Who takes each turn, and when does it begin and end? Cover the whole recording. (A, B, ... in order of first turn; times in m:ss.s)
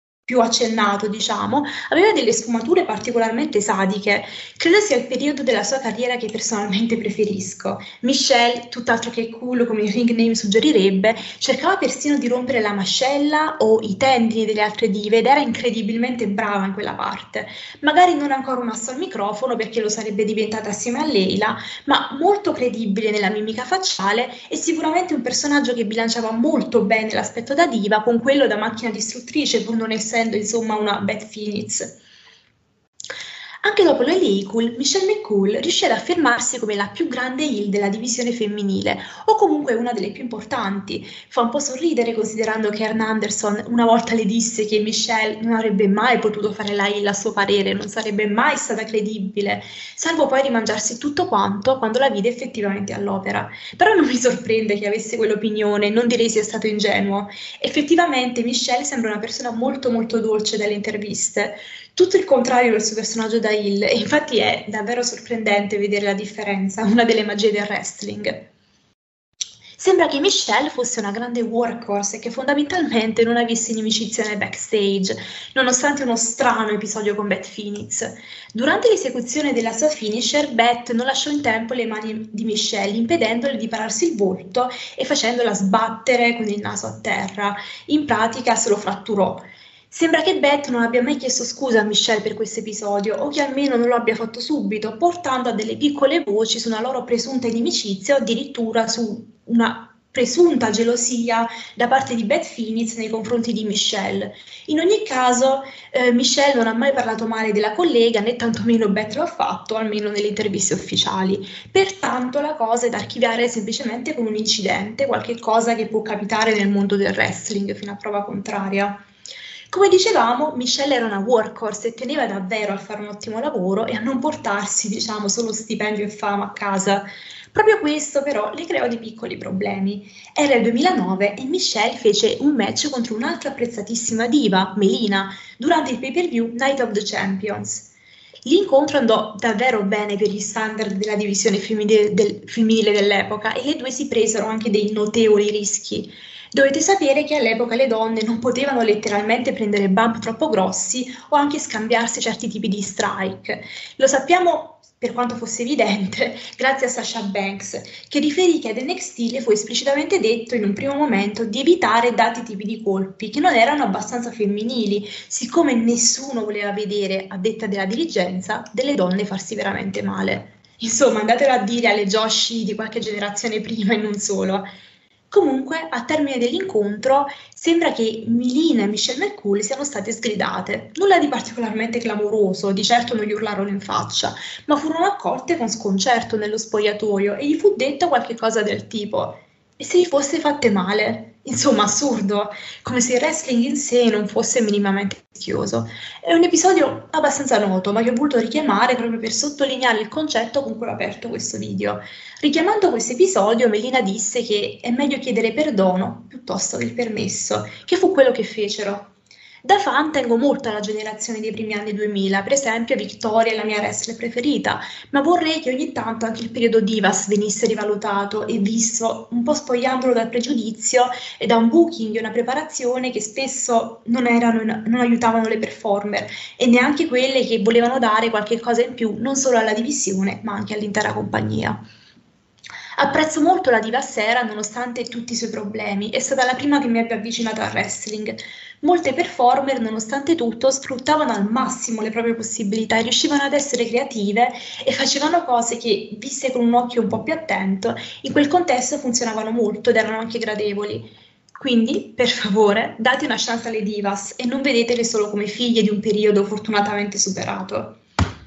0:00.2-0:32.0 A
0:33.6-1:08.5 A
1:09.8-1:59.0 A
1:59.7-2:17.9 A
2:18.4-2:54.7 A
2:55.3-3:29.1 A
3:29.6-3:51.8 A
3:53.0-4:18.0 A